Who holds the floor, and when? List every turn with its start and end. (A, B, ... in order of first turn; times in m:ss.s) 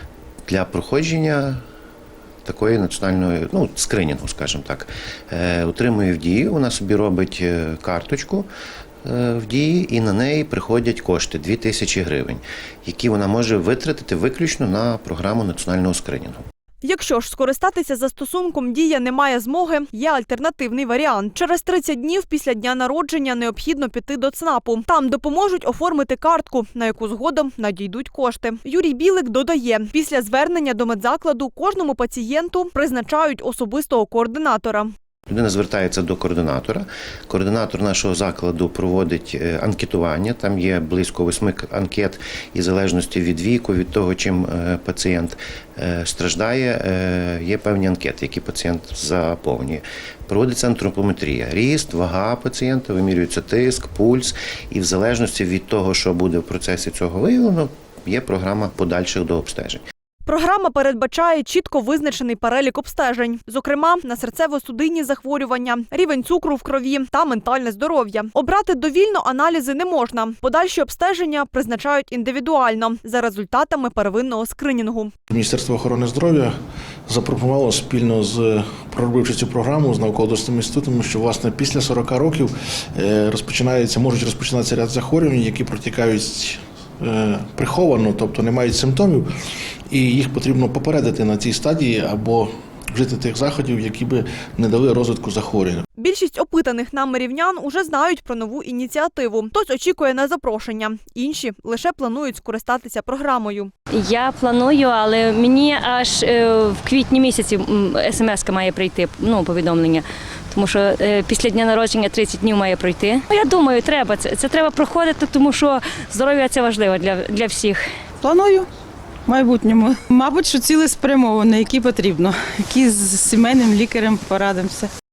0:00.5-0:01.6 A
0:02.4-0:08.5 A
0:09.0-0:16.4 A
0:16.8-0:34.9 B
0:35.3-0:59.8 A
1:00.2-1:15.1 B
1:15.3-1:16.5 C
1:17.1-1:29.3 C
1:29.9-1:35.8 C
1:36.0-1:43.7 B
1:44.0-1:57.8 D
1:58.2-1:58.7 E
1:59.3-2:04.9 E